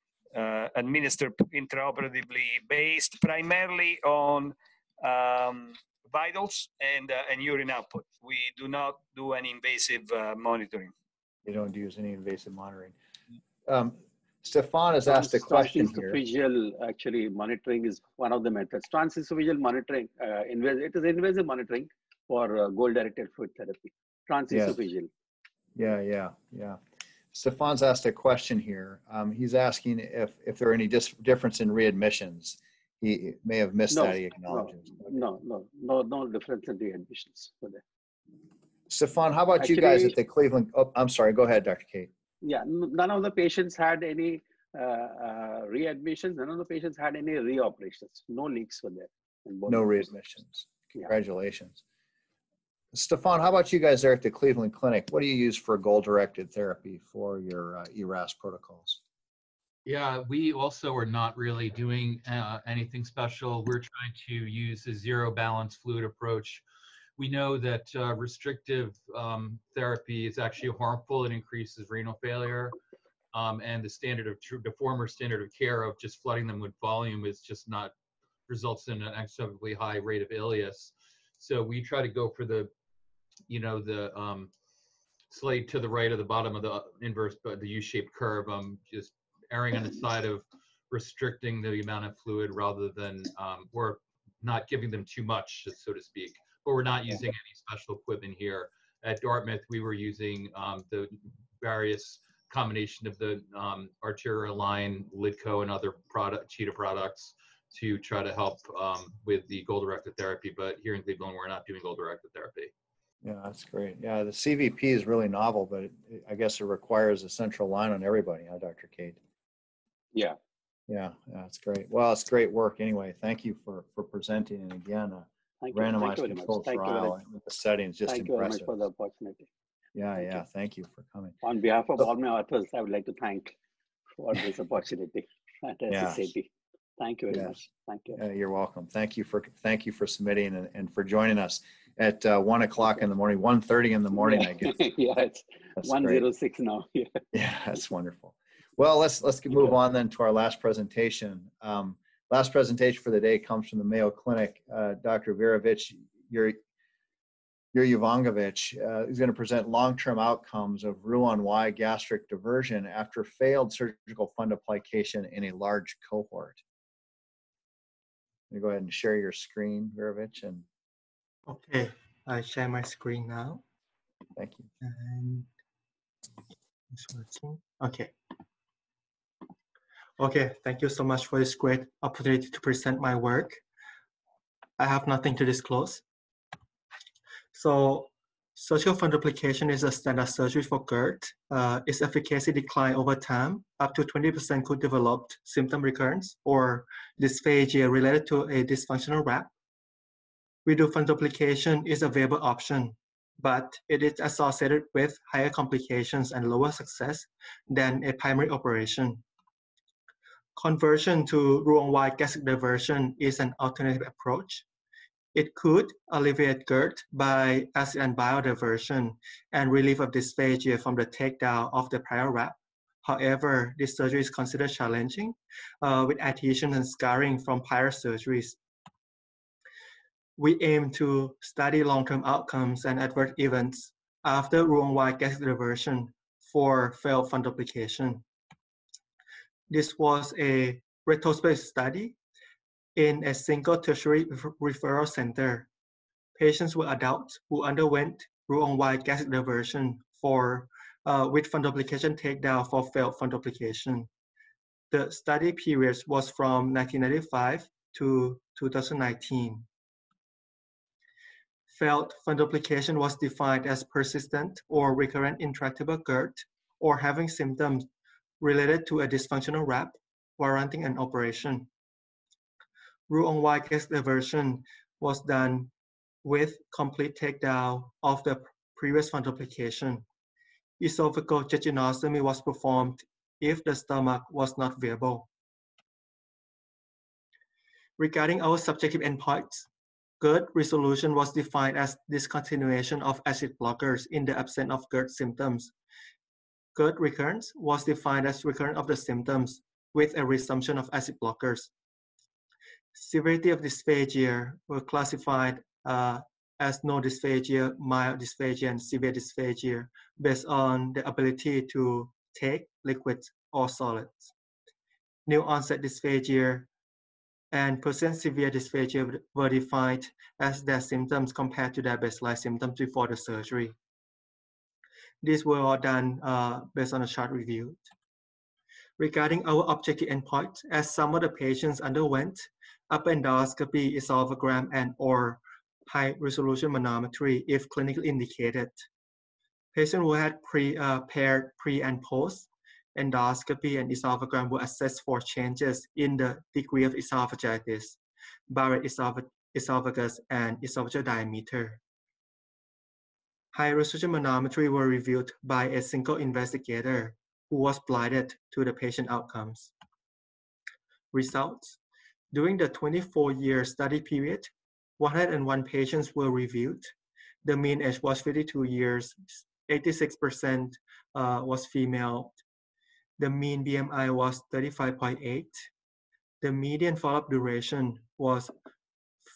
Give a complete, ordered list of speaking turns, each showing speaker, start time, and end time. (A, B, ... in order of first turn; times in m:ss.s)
0:00.3-0:10.9 A
0:11.4-0:12.9 B
0:13.6-0:16.2 B
0:15.1-0:25.1 C
0:24.5-0:24.8 B
0:25.8-0:26.8 B
0:27.3-0:35.2 B
0:33.9-0:37.8 C
0:38.9-0:42.1 B
0:39.6-0:40.1 C
0:42.4-0:50.0 C
0:49.7-0:51.8 B
0:52.9-0:59.0 B
0:59.8-1:06.6 D
1:07.2-1:12.7 D
1:13.3-1:17.9 D
1:18.5-1:22.7 D
1:23.5-1:24.5 D
1:25.3-1:52.7 D
1:53.2-1:59.2 B
2:00.9-2:08.7 B
2:05.6-2:07.2 C
2:08.1-2:09.5 C
2:09.9-2:11.4 B
2:11.4-2:13.6 C
2:14.2-2:18.2 C
2:15.9-2:16.3 B
2:17.3-2:24.8 B
2:24.2-2:27.2 C
2:25.8-2:26.2 B
2:27.3-2:36.6 B
2:37.7-2:46.6 B
2:48.5-2:50.6 B
2:51.5-2:53.6 E
2:54.4-2:54.7 B
2:54.8-2:55.5 E
2:56.9-2:58.1 E
3:00.2-3:03.6 E
3:04.8-3:06.0 E
3:07.5-3:19.5 E
3:20.6-3:29.2 E
3:30.6-3:34.6 E
3:35.3-3:48.6 E
3:50.4-3:58.2 E
3:59.7-4:02.2 E
4:03.0-4:05.7 E
4:06.4-4:14.1 E
4:14.9-4:19.7 E
4:21.7-4:27.9 E
4:28.4-4:31.7 E
4:33.1-4:35.7 E
4:36.2-4:40.0 E
4:40.8-4:45.3 E
4:48.0-4:49.7 E
4:50.2-4:55.7 E
4:56.7-5:01.7 E
5:02.9-5:14.3 E
5:15.2-5:16.7 E
5:17.5-5:23.8 E
5:25.2-5:27.8 E
5:29.0-5:38.8 E
5:39.7-5:48.0 E
5:48.5-5:51.8 E
5:53.5-5:59.7 E
6:01.1-6:01.8 E
6:02.3-6:06.9 E
6:07.4-6:12.3 E
6:13.2-6:15.6 E
6:16.4-6:18.5 E